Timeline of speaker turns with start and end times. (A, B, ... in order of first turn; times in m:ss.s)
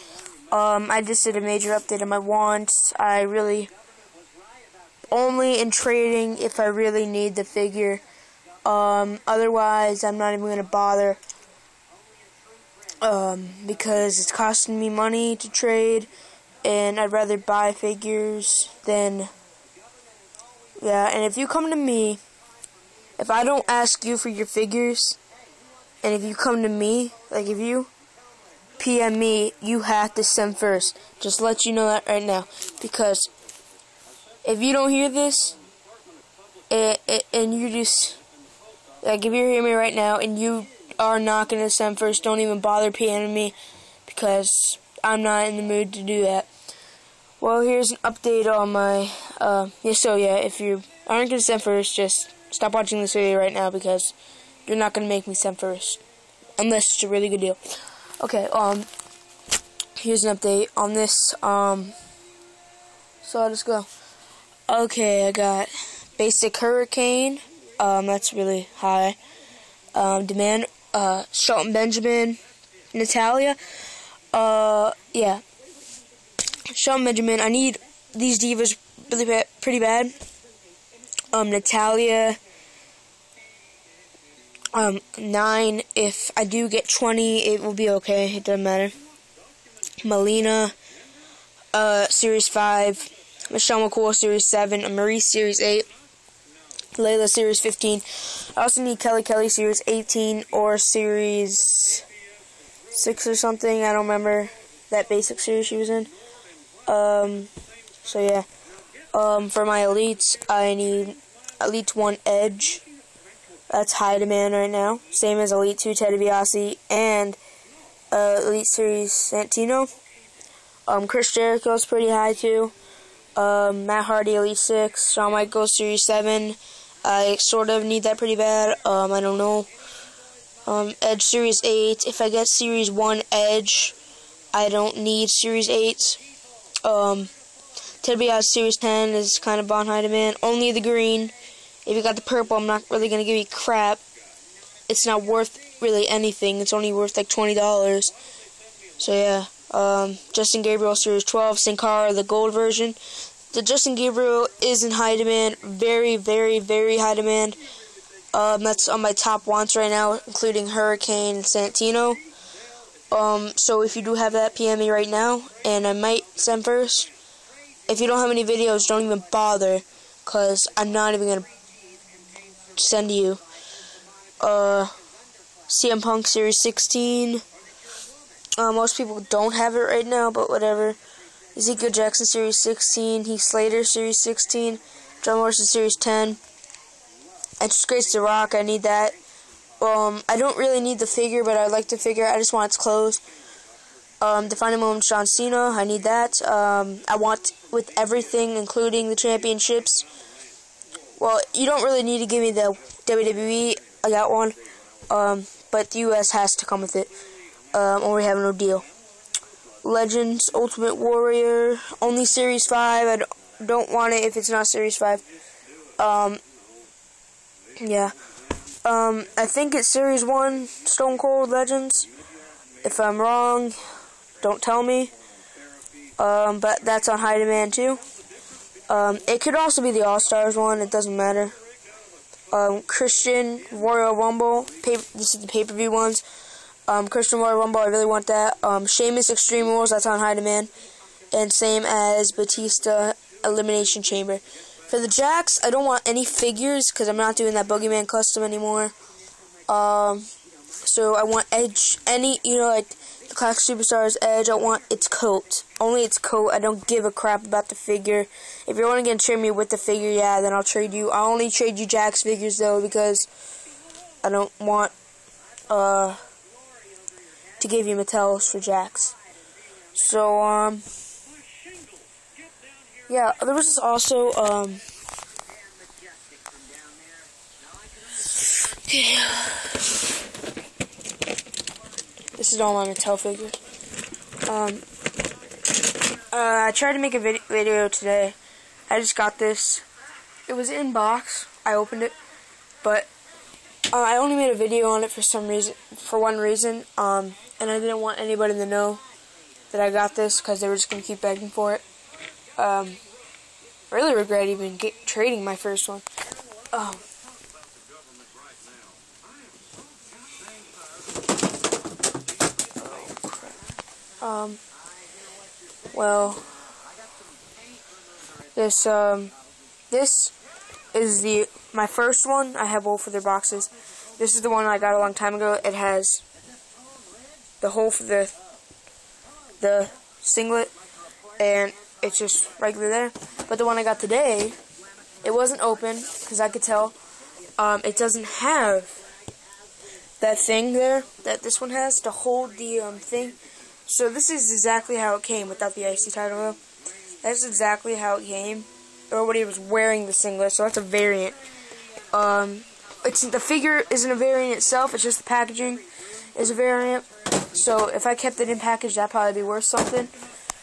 0:00.5-0:03.7 A
0:05.1-0:08.0 A
0:08.6-0:11.2 A
0:13.0-0:16.1 A
0:16.6-0:19.3 A
0:20.8-0:22.2 A
0:23.2-0:25.2 A
0:26.0-0:27.9 A
0:28.8-0:33.3 A
0:34.4-0:35.6 A
0:36.7-0:38.2 A
0:39.0-0:46.5 A
0:47.4-0:54.1 A
0:54.7-0:56.0 A
0:56.6-0:57.6 A
0:58.2-0:58.9 A
1:00.0-1:02.0 A
1:03.2-1:03.9 A
1:04.7-1:09.2 A
1:10.0-1:12.4 A
1:12.9-1:13.6 A
1:14.3-1:15.4 A
1:16.7-1:20.1 A
1:21.3-1:22.4 A
1:24.7-1:29.0 A
1:30.0-1:30.8 A
1:31.7-1:35.9 A
1:37.0-1:42.1 A
1:42.9-1:46.1 A
1:46.9-1:47.5 A
1:48.0-1:48.5 A
1:49.1-1:52.8 A
1:53.7-1:57.4 A
1:58.1-1:59.9 A
2:00.9-2:02.7 A
2:03.4-2:09.7 A
2:10.6-2:14.0 A
2:14.5-2:16.2 A
2:16.8-2:17.3 A
2:18.0-2:21.3 A
2:21.8-2:24.0 A
2:24.9-2:28.1 A
2:29.0-2:33.0 A
2:33.5-2:37.6 A
2:38.3-2:42.2 A
2:43.1-2:47.1 A
2:47.9-2:51.5 A
2:52.8-2:53.4 A
2:54.4-2:54.9 A
2:55.7-2:57.4 A
2:58.6-3:01.0 A
3:01.5-3:06.4 A
3:07.6-3:09.2 A
3:09.8-3:13.2 A
3:14.2-3:20.0 A
3:21.2-3:24.6 A
3:25.1-3:27.1 A
3:27.7-3:28.8 A
3:29.8-3:35.2 A
3:36.0-3:36.4 A
3:37.8-3:38.1 A
3:38.8-3:42.1 A
3:42.8-3:43.8 A
3:44.4-3:45.1 A
3:46.2-3:48.0 A
3:48.9-3:51.6 A
3:52.5-3:56.2 A
3:56.9-4:00.7 A
4:01.3-4:08.9 A
4:09.7-4:10.3 A
4:10.8-4:23.3 A
4:24.2-4:24.9 A
4:25.7-4:26.2 A
4:27.6-4:29.2 A
4:29.9-4:30.8 A
4:33.1-4:34.8 A
4:38.5-4:39.9 A
4:42.4-4:43.6 A
4:44.4-4:44.8 A
4:46.3-4:48.4 A
4:48.9-4:49.8 A
4:50.5-4:52.1 A
4:52.8-4:53.1 A
4:53.9-4:59.0 A
4:59.7-5:01.8 A
5:02.6-5:03.0 A
5:03.9-5:06.0 A
5:06.7-5:07.0 A
5:12.8-5:13.5 A
5:14.2-5:14.6 A
5:15.9-5:16.4 A
5:18.6-5:19.3 A
5:19.9-5:20.3 A
5:20.9-5:26.2 A
5:27.6-5:28.4 A
5:29.6-5:30.7 A
5:31.4-5:34.6 A
5:35.2-5:36.9 A
5:37.6-5:39.0 A
5:40.2-5:46.6 A
5:47.2-5:51.4 A
5:52.1-5:55.8 A
5:56.4-6:00.1 A